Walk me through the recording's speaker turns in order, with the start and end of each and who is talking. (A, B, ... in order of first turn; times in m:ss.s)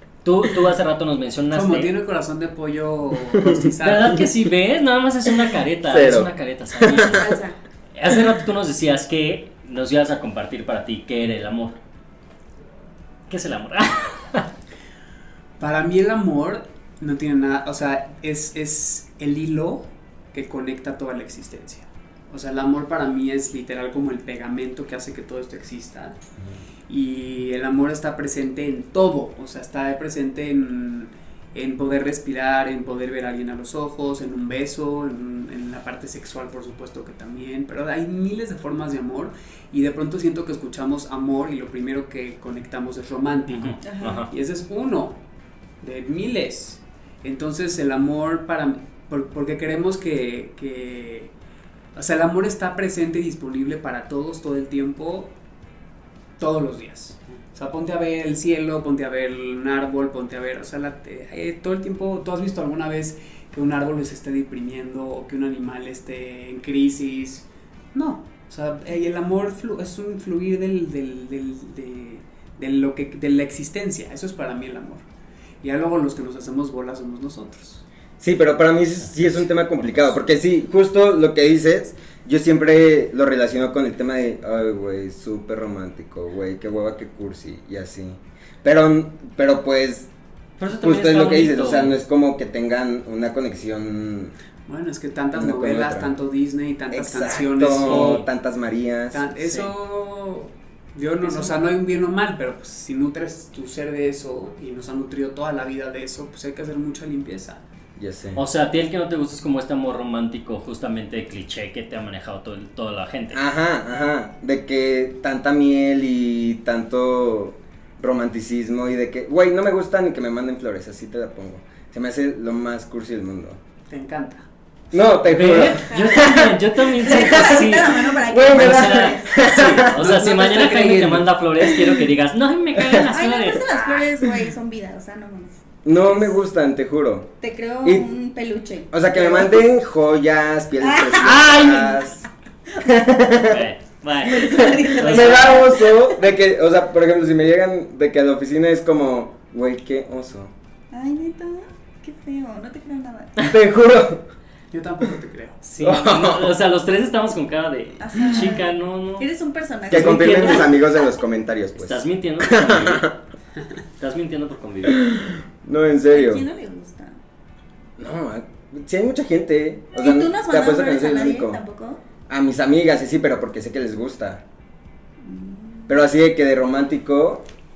0:00.2-0:01.9 A
0:01.5-0:04.3 B
0:03.8-0:07.4 A
0:05.8-0:06.3 C
0:06.9-0:07.2 C
0:07.1-0:07.6 D
0:08.0-0:11.8 A
0:13.3-0:14.5 A
0:15.6-0:26.2 B
0:26.9-0:45.2 B
0:43.5-0:44.3 A
0:43.8-0:44.2 D
0:45.8-0:51.3 B
0:51.9-0:55.3 B
0:56.4-1:15.0 B
1:15.6-1:17.8 B
1:18.2-1:30.1 C
1:19.0-1:20.2 A
1:30.6-1:32.0 A
1:30.8-1:34.3 C
1:34.7-1:38.2 B
1:35.3-1:36.1 C
1:36.9-1:39.2 C
1:37.7-1:38.2 A
1:39.1-1:47.6 B
1:39.4-1:39.7 A
1:41.2-1:41.5 D
1:48.0-1:48.4 C
1:48.4-1:53.4 A
1:53.3-2:03.6 C
2:03.9-2:04.4 B
2:04.9-2:06.4 C
2:05.2-2:13.8 A
2:05.9-2:09.4 D
2:07.1-2:07.7 C
2:08.3-2:09.9 C
2:09.9-2:11.3 B
2:12.8-2:16.3 D
2:15.8-2:17.3 C
2:17.4-2:19.6 D
2:18.9-2:22.2 C
2:20.8-2:21.7 D
2:21.2-2:22.0 A
2:22.8-2:23.6 C
2:23.4-2:25.7 A
2:24.2-2:26.1 D
2:24.6-2:30.5 C
2:30.9-2:33.3 D
2:33.4-2:34.2 C
2:34.7-2:35.7 B
2:35.6-2:39.3 A
2:35.8-2:36.5 C
2:38.0-2:40.7 D
2:39.9-2:40.7 A
2:39.9-2:43.1 C
2:41.8-2:43.1 A
2:44.0-2:45.1 A
2:44.9-2:46.4 C
2:46.1-2:47.2 D
2:48.0-2:51.6 C
2:50.0-2:52.0 D
2:52.3-2:54.4 C
2:55.2-2:55.9 D
2:55.9-2:57.4 C